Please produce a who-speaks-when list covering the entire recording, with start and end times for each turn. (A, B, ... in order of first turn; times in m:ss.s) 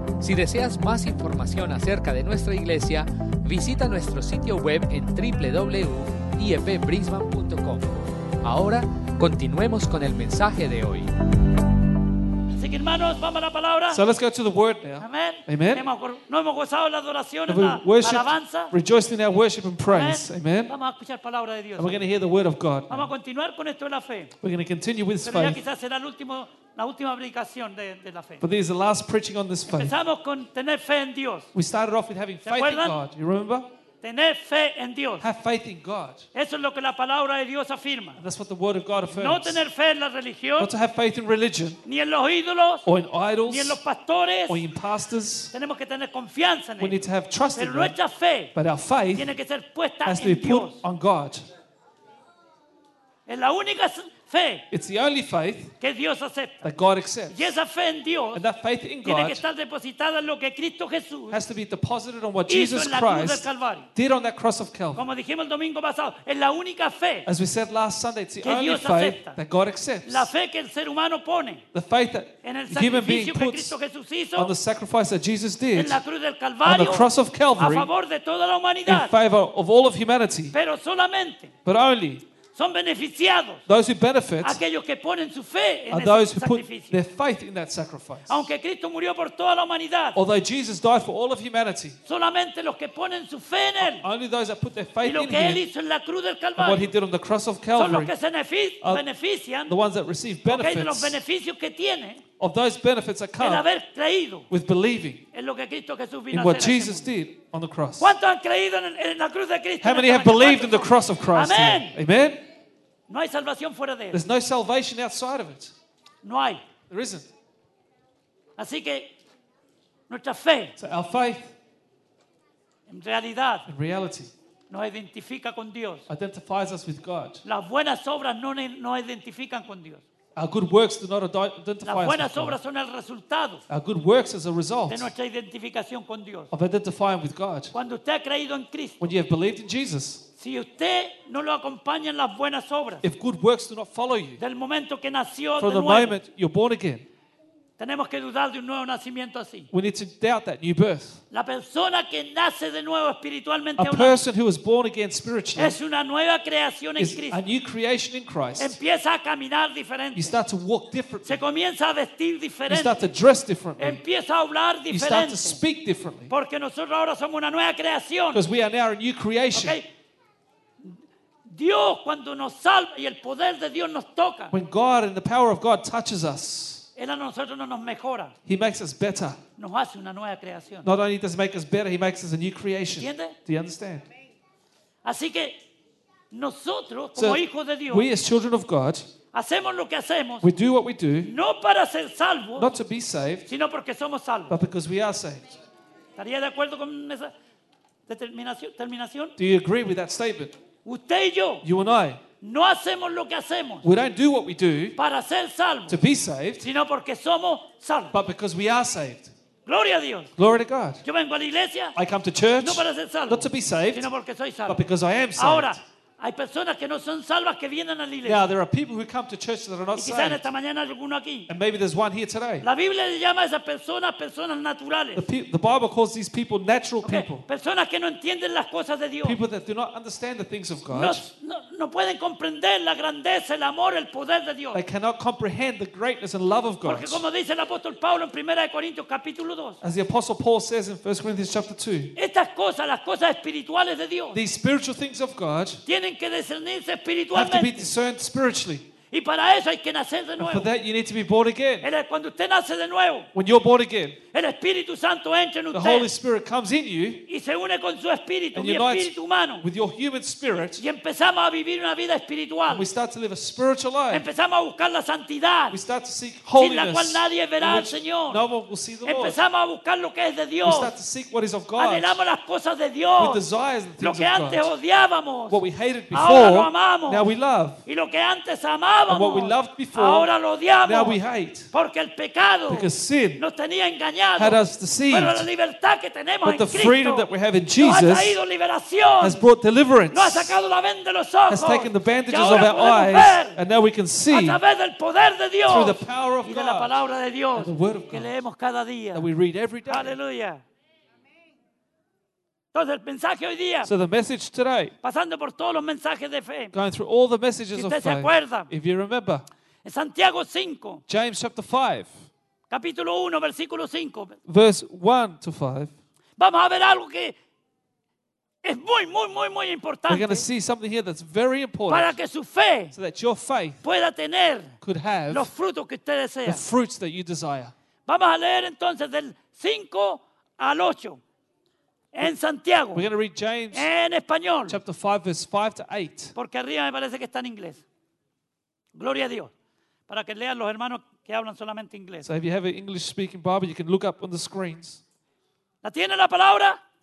0:00.2-0:11.1 A
0:12.5-0:14.0 B
0:13.9-0:15.9 C
0:15.0-0:18.7 B
0:17.5-0:20.7 C
0:19.9-0:22.0 B
0:21.8-0:23.1 C
0:22.9-0:24.3 B
0:24.4-0:25.6 C
0:25.2-0:28.4 B
0:28.4-0:29.9 C
0:29.7-0:31.5 B
0:31.5-0:33.7 C
0:32.4-0:33.0 B
0:34.0-0:35.3 B
0:35.2-0:36.3 C
0:36.3-0:38.2 B
0:38.2-0:39.6 C
0:39.1-0:40.7 B
0:40.6-0:41.8 C
0:41.8-0:42.9 B
0:42.9-0:43.8 C
0:43.4-0:44.6 B
0:44.5-0:45.5 C
0:45.5-0:47.0 B
0:46.8-0:48.0 C
0:47.6-0:48.5 B
0:48.6-0:49.4 C
0:49.1-0:50.8 B
0:50.0-0:51.5 C
0:53.3-0:54.7 B
0:54.7-0:55.7 C
0:55.8-0:56.7 B
0:56.6-0:57.5 C
0:57.3-0:58.4 B
0:58.3-0:59.4 C
0:59.0-1:01.4 B
1:01.3-1:05.0 C
1:02.5-1:03.9 B
1:05.0-1:07.3 B
1:07.3-1:10.3 C
1:08.4-1:09.4 B
1:10.0-1:11.6 B
1:11.7-1:13.8 C
1:12.4-1:14.5 B
1:14.4-1:16.0 C
1:15.7-1:19.1 B
1:16.6-1:17.9 C
1:18.9-1:20.6 C
1:20.5-1:21.5 B
1:21.6-1:22.2 C
1:22.5-1:23.6 B
1:23.7-1:24.6 C
1:24.4-1:27.0 B
1:25.9-1:28.5 C
1:28.3-1:30.2 B
1:30.2-1:32.0 C
1:32.1-1:34.1 B
1:33.8-1:35.6 C
1:35.0-1:36.9 B
1:36.6-1:38.1 C
1:37.8-1:39.8 B
1:39.6-1:41.2 C
1:40.5-1:42.2 B
1:42.4-1:43.7 C
1:43.4-1:44.5 B
1:44.5-1:45.2 C
1:45.3-1:47.1 B
1:46.3-1:48.2 C
1:48.0-1:52.0 B
1:49.8-1:52.4 C
1:53.1-1:54.2 B
1:54.1-1:55.7 C
1:56.2-1:56.6 B
1:56.9-1:57.3 C
1:58.6-1:59.1 B
2:00.1-2:00.8 B
2:00.8-2:01.5 C
2:02.9-2:03.7 B
2:03.7-2:04.3 C
2:04.7-2:06.1 B
2:06.1-2:07.4 C
2:07.4-2:10.0 B
2:10.4-2:12.6 C
2:11.8-2:13.6 B
2:13.7-2:15.1 C
2:14.9-2:16.5 B
2:16.5-2:17.8 C
2:17.7-2:19.1 B
2:19.0-2:20.2 C
2:20.4-2:23.0 B
2:23.0-2:24.4 C
2:24.4-2:26.2 B
2:25.6-2:27.1 C
2:27.8-2:29.7 B
2:29.7-2:31.2 C
2:31.3-2:34.2 B
2:33.8-2:35.8 C
2:35.6-2:37.4 B
2:37.0-2:38.8 C
2:38.6-2:40.4 B
2:40.2-2:41.4 C
2:41.2-2:43.0 B
2:42.7-2:44.0 C
2:43.8-2:45.6 B
2:44.9-2:46.3 C
2:46.3-2:48.4 B
2:48.3-2:49.8 C
2:49.5-2:49.9 B
2:50.8-2:54.5 B
2:54.5-2:56.9 C
2:57.0-2:58.3 B
2:58.5-2:59.4 C
2:59.6-3:00.9 B
3:00.8-3:04.0 C
3:03.0-3:03.4 B
3:05.0-3:05.6 B
3:06.3-3:08.1 B
3:07.2-3:09.1 C
3:09.3-3:10.5 B
3:10.4-3:11.3 C
3:11.2-3:12.7 B
3:12.6-3:13.5 C
3:13.5-3:14.5 B
3:14.5-3:15.6 C
3:16.2-3:17.3 B
3:18.1-3:19.4 B
3:19.4-3:20.6 C
3:20.8-3:21.6 B
3:21.6-3:22.2 C
3:22.4-3:23.9 B
3:23.8-3:25.0 C
3:25.0-3:26.0 B
3:25.9-3:26.6 C
3:26.6-3:28.2 B
3:28.1-3:29.3 C
3:29.7-3:30.3 B
3:30.4-3:31.0 C
3:31.0-3:32.0 B
3:32.0-3:34.1 C
3:32.6-3:34.8 B
3:34.7-3:35.8 C
3:35.4-3:38.4 B
3:38.2-3:40.4 C
3:40.0-3:41.5 B
3:41.5-3:42.7 C
3:42.6-3:45.3 B
3:45.2-3:47.4 C
3:47.0-3:49.4 B
3:49.2-3:51.2 C
3:50.9-3:54.8 B
3:54.7-3:57.2 C
3:56.8-3:59.8 B
3:59.8-4:02.1 C
4:02.2-4:04.4 B
4:04.3-4:05.8 C
4:05.9-4:07.9 B
4:07.3-4:08.9 C
4:09.1-4:10.7 B
4:10.4-4:11.9 C
4:11.8-4:13.3 B
4:13.3-4:14.2 C
4:14.3-4:16.1 B
4:15.7-4:17.2 C
4:17.3-4:19.6 B
4:18.5-4:20.8 C
4:20.8-4:22.9 B
4:22.7-4:24.3 C
4:24.1-4:25.8 B
4:25.7-4:29.4 C
4:26.5-4:28.4 B
4:29.0-4:30.9 B
4:30.6-4:32.2 C
4:31.8-4:33.4 B
4:33.2-4:34.7 C
4:34.0-4:37.3 B
4:35.5-4:37.8 C
4:37.9-4:41.2 B
4:39.1-4:40.3 C
4:40.8-4:41.7 C
4:41.7-4:49.4 B
4:42.7-4:43.4 C
4:44.4-4:45.5 C
4:46.4-4:48.4 C
4:49.2-4:50.6 C
4:50.1-4:53.6 B
4:51.5-4:54.6 C
4:54.3-4:59.3 B
4:55.7-4:57.0 C
4:57.6-4:58.4 C
4:59.1-5:00.2 C
4:59.9-5:00.6 B
5:02.7-5:03.9 B
5:03.8-5:05.0 C
5:05.0-5:06.7 B
5:06.7-5:09.5 C
5:07.8-5:08.7 B
5:09.8-5:11.0 B
5:11.1-5:12.1 C
5:12.7-5:14.4 B
5:14.5-5:15.9 C
5:16.4-5:17.4 B
5:18.6-5:20.5 B
5:20.1-5:22.2 C
5:21.9-5:22.9 B
5:22.9-5:23.8 C
5:23.8-5:24.8 B
5:24.8-5:25.5 C
5:25.3-5:26.6 B
5:26.5-5:27.7 C
5:28.1-5:31.2 B
5:32.1-5:33.1 B
5:32.9-5:33.9 C
5:33.7-5:34.8 B
5:34.7-5:36.3 C
5:36.4-5:37.8 B
5:38.9-5:39.5 B
5:40.1-5:42.3 B
5:42.2-5:45.0 C
5:45.8-5:46.8 B